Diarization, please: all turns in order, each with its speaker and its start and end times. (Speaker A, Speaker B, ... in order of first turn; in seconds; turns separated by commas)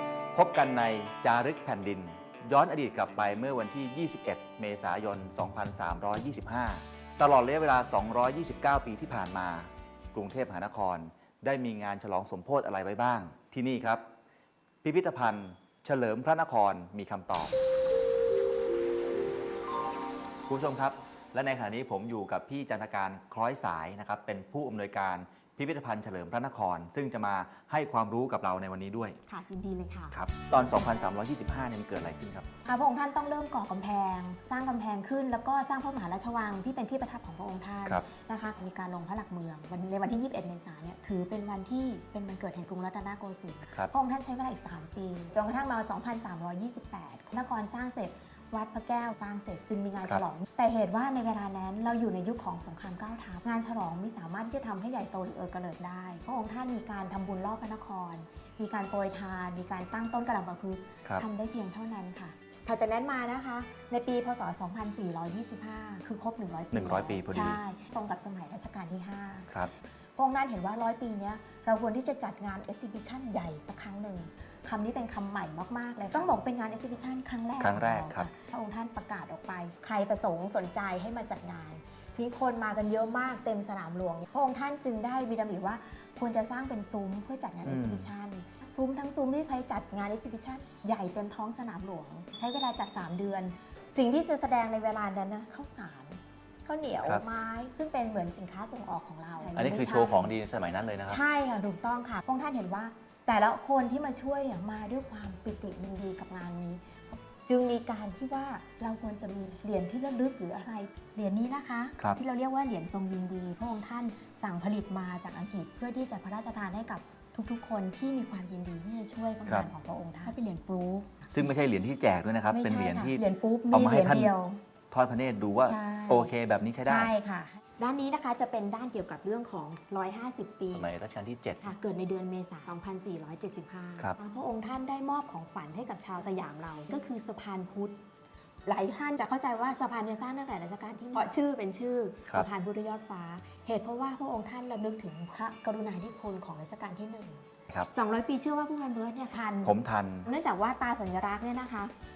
Speaker A: 0.3-14.0, Speaker A: 14.8-17.6, Speaker A: 20.5-29.2, Speaker B: 29.3-31.1, Speaker A: 30.1-32.5, Speaker B: 32.6-69.5, Speaker A: 66.7-67.6, Speaker B: 70.2-100.3, Speaker A: 77.6-78.3, Speaker A: 87.7-88.1, Speaker A: 97.0-97.3, Speaker A: 99.5-101.2, Speaker B: 101.1-121.5, Speaker A: 119.5-119.7, Speaker A: 121.3-124.3, Speaker B: 122.5-124.6, Speaker A: 124.9-127.1, Speaker B: 125.6-126.3, Speaker B: 126.8-130.9, Speaker A: 130.7-131.7, Speaker B: 131.6-138.0, Speaker B: 138.7-151.9, Speaker A: 149.6-150.3